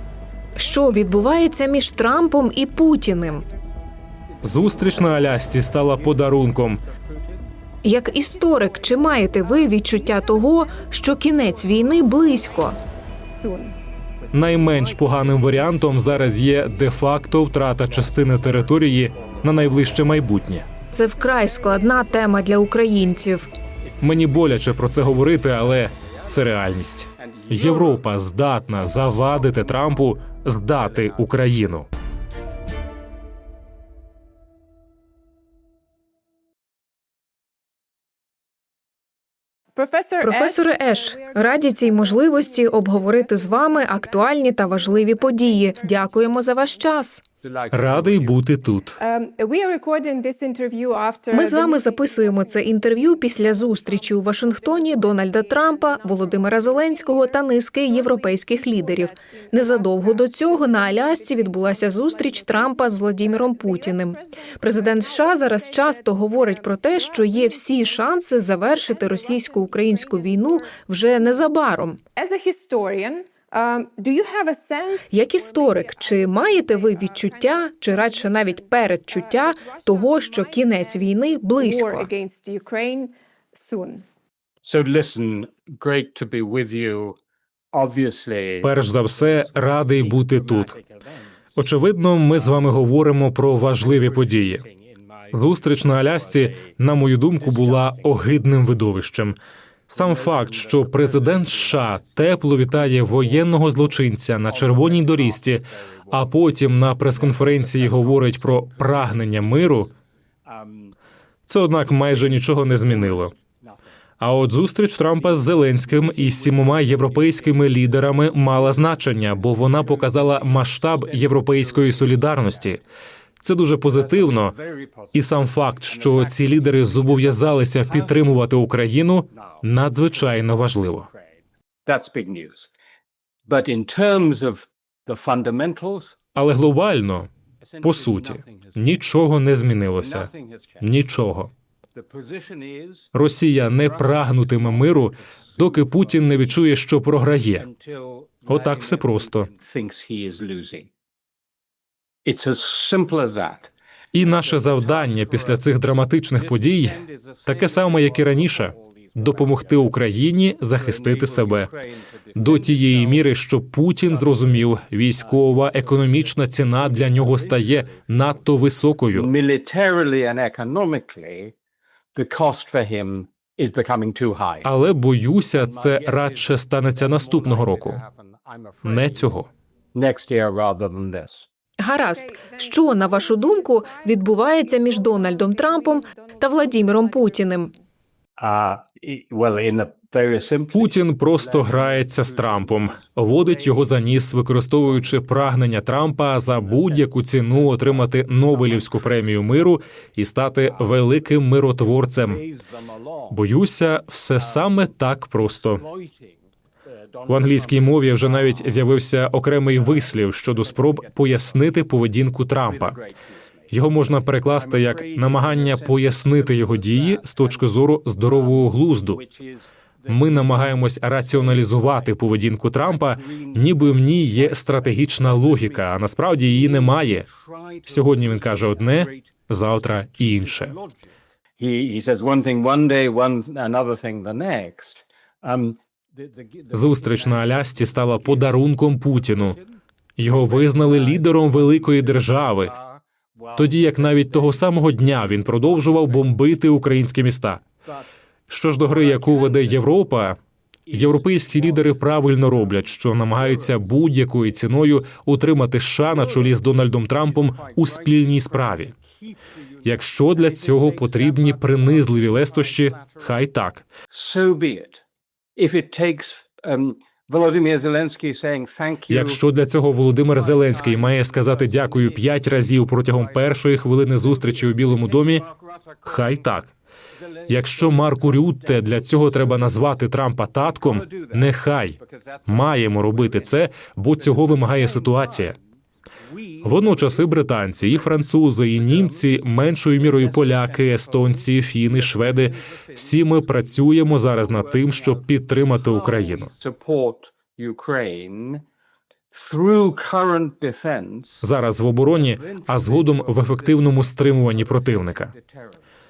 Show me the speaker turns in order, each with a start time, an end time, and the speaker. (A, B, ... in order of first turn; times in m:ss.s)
0:00.6-0:03.4 A
0:04.3-0:07.5 B
0:04.4-0:06.8 C
0:07.8-0:12.8 A
0:08.5-0:11.3 D
0:11.6-0:12.5 B
0:13.3-0:13.8 D
0:14.2-0:17.2 B
0:14.3-0:20.7 C
0:17.8-0:20.2 B
0:20.9-0:23.5 A
0:21.3-0:22.3 B
0:23.8-0:26.5 B
0:24.0-0:31.9 C
0:27.2-0:28.1 B
0:28.9-0:31.3 B
0:39.8-0:46.6 D
0:40.2-0:47.2 A
0:47.4-0:48.4 B
0:47.7-0:49.0 C
0:49.0-1:11.4 D
0:51.3-1:12.0 A
1:12.2-1:24.0 D
1:15.1-1:22.1 A
1:24.6-1:27.2 B
1:27.7-1:31.6 B
1:28.6-1:30.8 C
1:31.6-1:34.6 C
1:32.3-1:32.8 B
1:33.5-1:36.8 B
1:35.3-1:39.4 C
1:37.4-1:38.3 B
1:39.9-1:49.9 C
1:39.9-1:46.4 B
1:47.0-1:49.4 B
1:50.4-1:51.0 B
1:51.5-1:53.3 C
1:51.8-1:53.9 B
1:54.2-2:02.8 C
1:55.2-2:02.8 B
2:03.4-2:04.6 C
2:03.9-2:05.3 B
2:05.1-2:11.1 C
2:05.9-2:08.4 B
2:09.3-2:09.6 B
2:10.1-2:12.7 B
2:13.5-2:16.2 B
2:16.3-2:17.3 C
2:17.6-2:19.2 B
2:17.8-2:21.5 C
2:20.0-2:20.9 B
2:21.9-2:23.1 B
2:23.1-2:27.7 C
2:23.7-2:26.7 B
2:27.6-2:30.9 B
2:28.5-2:29.5 C
2:32.2-2:40.0 B
2:34.1-2:41.7 C
2:40.8-2:43.3 B
2:42.3-2:49.3 C
2:44.0-2:48.5 B
2:49.1-2:51.5 B
2:52.2-2:54.7 B
2:54.6-2:58.0 C
2:55.5-2:59.4 B
2:58.8-2:59.5 C
2:59.9-3:01.5 B
3:01.8-3:07.7 A
3:02.0-3:07.7 D
3:08.4-3:14.0 B
3:10.7-3:22.4 C
3:14.9-3:15.2 B
3:16.5-3:19.7 B
3:20.6-3:21.0 B
3:21.8-3:23.4 B
3:23.3-3:25.8 C
3:24.4-3:24.8 B
3:25.6-3:28.9 B
3:27.3-3:33.0 C
3:29.7-3:31.7 B
3:32.6-3:33.7 B
3:33.7-3:39.2 C
3:34.5-3:37.7 B
3:38.2-3:42.2 B
3:40.1-3:47.3 C
3:42.8-3:49.3 B
3:47.8-3:50.8 C
3:50.2-3:59.6 B
3:56.7-3:59.6 C
4:00.2-4:02.7 C
4:00.2-4:06.8 B
4:03.6-4:07.6 C
4:07.8-4:08.1 B
4:08.5-4:10.4 C
4:08.8-4:10.0 B
4:10.9-4:13.9 B
4:10.9-4:18.9 C
4:16.1-4:23.4 B
4:19.8-4:23.8 C
4:24.1-4:25.0 B
4:25.6-4:29.4 B
4:29.1-4:35.4 C
4:30.3-4:36.5 B
4:36.0-4:36.7 C
4:37.1-4:40.0 B
4:37.5-4:45.6 C
4:40.6-4:43.6 B
4:44.2-4:45.6 B
4:46.2-4:58.6 B
4:46.6-4:56.5 C
4:59.3-5:01.5 B
5:01.4-5:05.3 C
5:02.1-5:05.8 B